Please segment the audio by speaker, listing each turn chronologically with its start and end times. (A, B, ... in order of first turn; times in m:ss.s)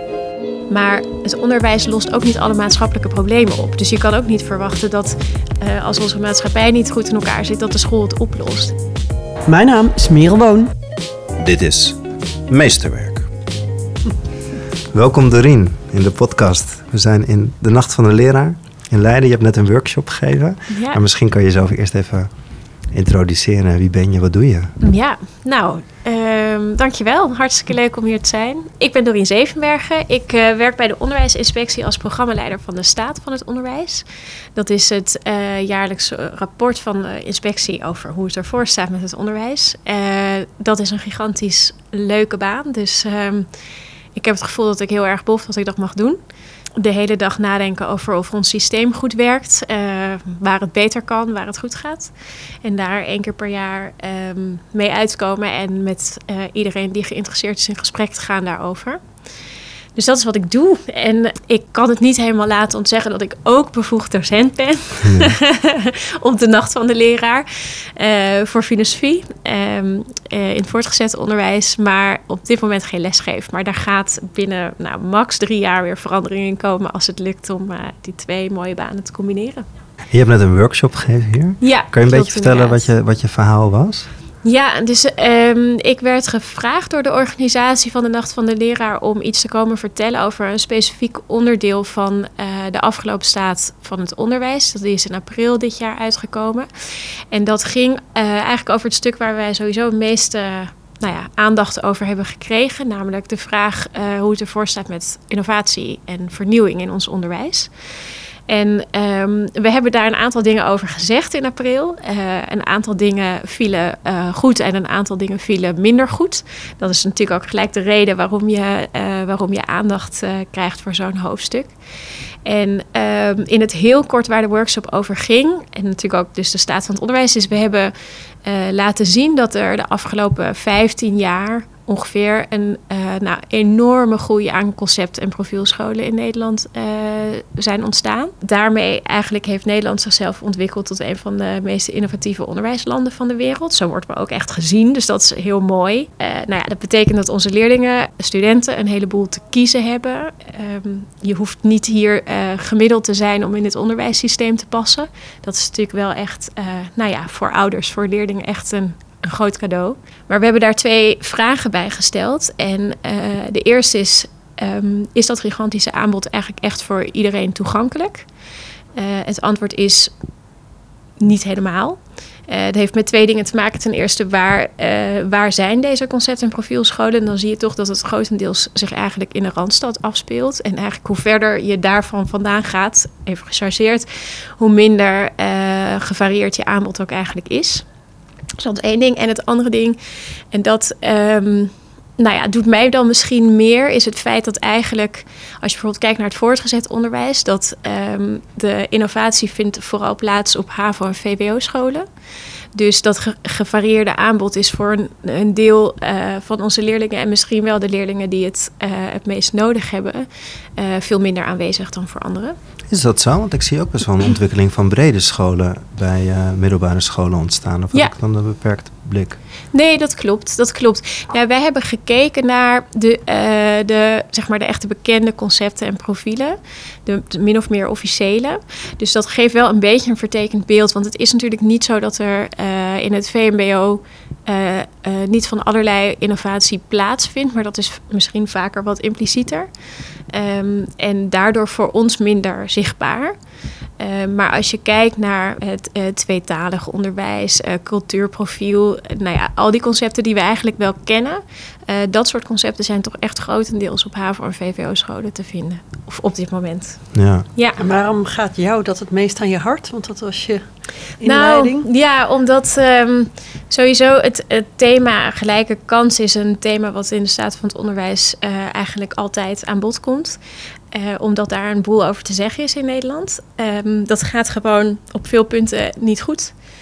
0:00.7-0:08.8 A
0:09.5-0:10.7 B
0:11.4-0:12.0 C
0:12.5-0:13.3 C
0:14.9-0:22.3 C
0:20.7-0:21.0 A
0:22.9-0:24.7 C
0:24.8-0:43.5 A
0:44.1-0:46.2 A
0:46.8-0:59.0 A
1:00.0-1:19.6 A
1:05.0-1:05.3 C
1:20.1-1:24.1 C
1:21.6-1:22.9 A
1:24.4-1:36.7 A
1:37.3-1:47.7 A
1:48.5-2:01.7 A
2:02.4-2:07.9 A
2:08.4-2:48.3 A
2:49.0-2:50.1 A
2:51.2-3:04.1 A
3:04.6-3:07.8 A
3:08.6-3:10.0 A
3:10.5-3:22.0 A
3:22.7-3:30.2 A
3:30.8-3:32.6 A
3:32.9-3:39.4 C
3:39.7-3:59.7 A
4:00.3-4:03.4 A
4:04.0-4:17.8 A
4:17.1-4:17.4 C
4:17.8-4:21.9 B
4:21.2-4:30.4 A
4:30.9-4:36.5 A